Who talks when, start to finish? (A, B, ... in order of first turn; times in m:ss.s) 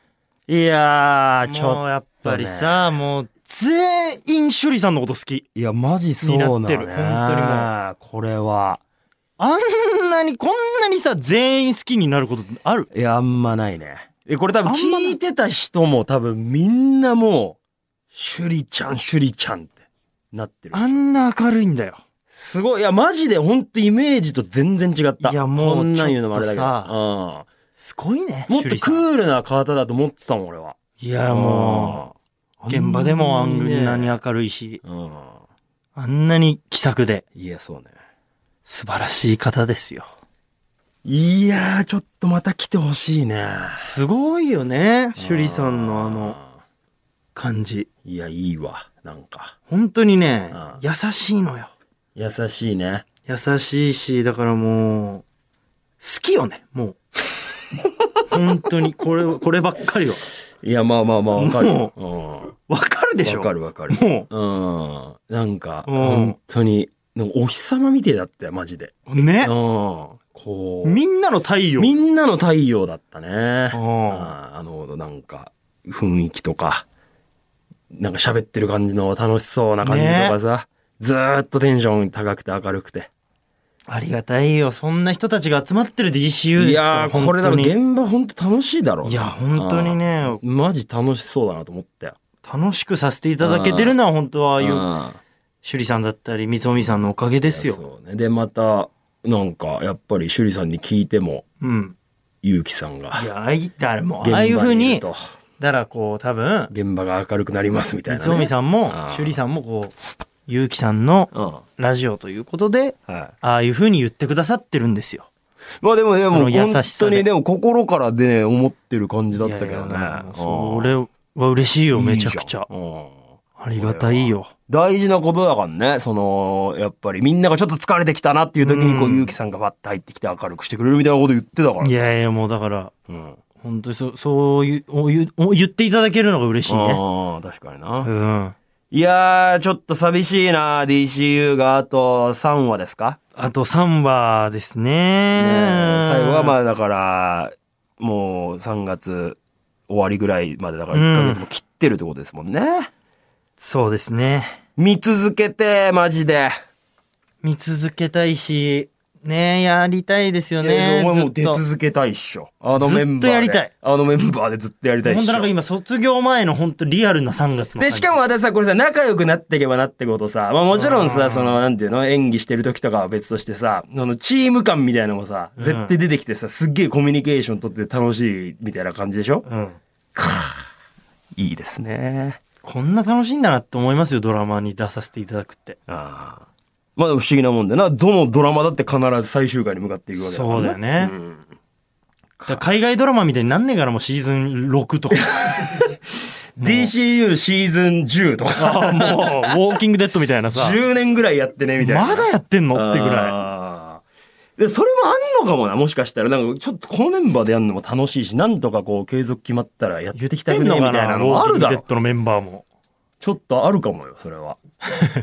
0:00.5-0:03.0 A
0:01.5-0:05.5 B
0:05.6-0:08.8 A
0:06.2-0:07.7 B
0:09.4-0:12.9 B
0:12.9-0:17.6 A
0:14.6-0:15.2 B
0:18.1-0:19.8 A
0:20.3-0:21.0 A
0:20.7-0:22.0 B
0:22.3-0:27.5 A
0:25.2-0:26.9 B
0:27.8-0:29.0 B
0:28.5-0:30.8 A
0:31.0-0:32.0 B
0:31.3-0:34.2 A
0:32.7-0:34.8 B
0:34.8-0:35.4 A
0:36.0-0:37.2 B
0:37.4-0:37.9 A
0:38.7-0:40.1 B
0:41.0-0:44.0 A
0:43.8-0:46.4 B
0:45.2-0:46.5 A
0:47.4-0:47.9 B
0:48.0-0:49.6 A
0:49.7-0:51.7 B
0:50.5-0:50.8 A
0:52.2-0:53.1 A
0:53.3-0:55.2 B
0:56.0-0:57.0 B
0:58.3-1:00.3 B
1:00.6-1:02.5 A
1:01.4-1:01.9 B
1:02.7-1:04.3 B
1:03.2-1:11.0 A
1:05.9-1:06.4 B
1:09.1-1:09.5 B
1:10.8-1:11.9 B
1:11.8-1:16.9 A
1:13.7-1:14.3 B
1:17.9-1:23.1 A
1:19.8-1:20.4 B
1:23.9-1:27.8 B
1:26.6-1:32.2 A
1:29.0-1:30.4 B
1:32.4-1:34.9 B
1:33.4-1:34.0 A
1:34.6-1:35.2 A
1:35.6-1:37.8 B
1:37.5-1:41.4 A
1:41.6-1:42.0 B
1:42.4-1:43.2 A
1:43.1-1:45.1 B
1:44.2-1:45.3 A
1:45.6-1:46.7 B
1:46.7-1:49.4 A
1:48.1-1:50.0 B
1:50.5-1:55.3 B
1:51.3-1:51.6 A
1:53.1-1:53.3 A
1:55.8-2:00.9 A
1:56.2-1:57.3 B
1:59.4-2:02.7 B
2:01.9-2:03.2 A
2:03.6-2:04.5 B
2:03.8-2:11.9 A
2:08.6-2:09.4 B
2:11.8-2:12.9 B
2:13.1-2:13.4 A
2:13.6-2:17.0 B
2:16.7-2:18.1 A
2:18.0-2:18.6 B
2:18.9-2:23.2 A
2:23.4-2:26.6 B
2:25.4-2:32.9 A
2:30.9-2:31.4 B
2:33.6-2:34.6 B
2:34.8-2:36.6 A
2:37.4-2:41.6 B
2:40.6-2:45.5 A
2:42.8-2:43.7 B
2:45.0-2:48.2 B
2:47.8-2:59.5 A
2:50.7-2:51.6 B
2:55.6-2:55.9 B
2:59.5-2:59.8 B
3:00.2-3:00.7 A
3:01.4-3:02.4 A
3:02.6-3:05.8 B
3:05.9-3:11.4 A
3:10.2-3:11.2 B
3:12.4-3:12.7 A
3:12.5-3:15.7 B
3:15.3-3:16.0 A
3:16.6-3:19.6 A
3:16.6-3:16.9 B
3:18.6-3:20.8 B
3:20.5-3:24.0 A
3:21.8-3:23.4 B
3:24.6-3:31.8 A
3:30.2-3:32.6 B
3:33.2-3:34.6 A